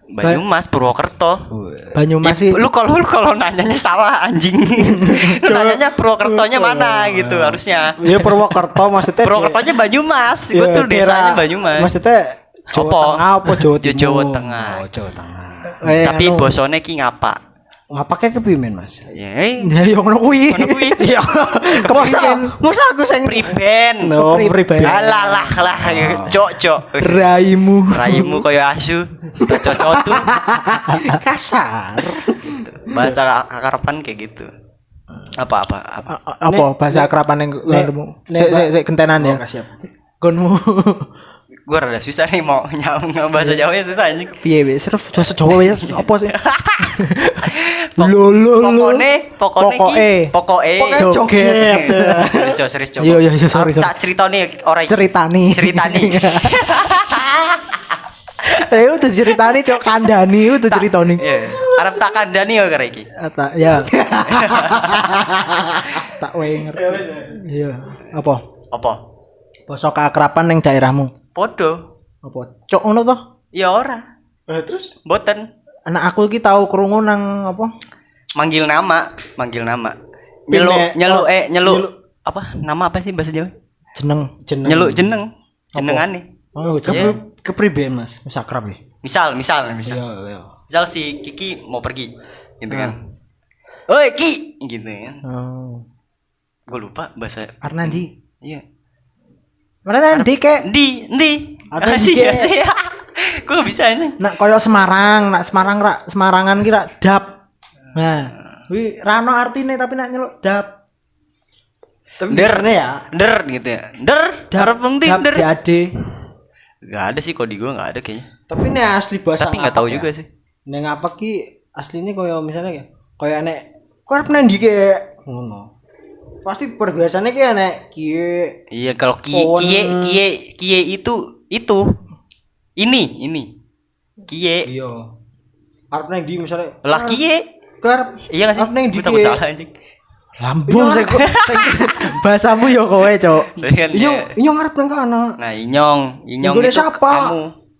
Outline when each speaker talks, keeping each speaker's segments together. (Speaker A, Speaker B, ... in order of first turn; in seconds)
Speaker A: 0.1-1.5, 2.2-8.0, 9.2-11.9, 12.7-14.9, 15.9-17.4, 19.1-19.7, 20.5-21.1, 23.2-24.2, 24.8-27.3, 27.9-30.3, 32.8-34.5, 35.4-36.1, 41.7-44.4, 45.3-57.6, 60.7-63.1, 64.3-65.0, 68.7-69.0, 71.3-71.8, 73.5-74.0, 75.0-75.4, 78.3-80.0, 80.5-83.5, 84.7-86.2, 86.9-87.1, 89.0-90.0, 90.7-93.0, 93.9-95.2, 96.7-98.6, 100.1-104.2, 112.3-115.5, 116.8-118.3, 119.4-120.3, 128.7-131.8, 132.8-133.5, 134.3-134.7, 136.8-137.4, 138.3-139.7, 141.2-141.8, 143.6-144.3, 145.4-147.5
Speaker B: 1.5-2.0, 5.2-9.8, 10.5-15.8, 17.9-19.1, 21.0-26.4, 29.4-33.2, 36.5-37.1, 37.6-39.8, 50.9-52.6, 61.5-61.8, 63.8-66.0, 66.7-67.4, 74.5-75.0, 80.5-81.9, 84.4-85.1, 86.6-88.2, 89.8-90.5, 92.7-92.9, 101.7-102.5, 112.2-113.0, 118.5-120.1, 120.7-125.7, 126.4-128.6, 129.3-130.2, 134.6-135.1, 135.9-137.2, 137.8-139.4, 140.7-141.2, 143.9-145.3, 146.4-147.3
Speaker C: 1.9-2.6, 4.8-5.3, 15.8-16.5, 19.6-20.9, 21.7-22.5, 24.2-24.9, 27.0-28.4, 29.9-31.2, 36.1-39.4, 40.2-41.1, 44.4-49.0, 49.6-50.3, 50.8-52.2, 53.0-53.9, 54.9-56.9, 58.4-61.5, 63.1-64.0, 66.0-68.4, 69.7-71.1, 72.2-73.2, 75.8-77.7, 84.0-84.3, 85.8-86.0, 86.5-87.2, 88.2-88.8, 95.2-95.8, 97.6-98.1, 99.8-100.7, 104.2-107.4, 107.9-110.7, 114.5-115.9, 140.4-143.5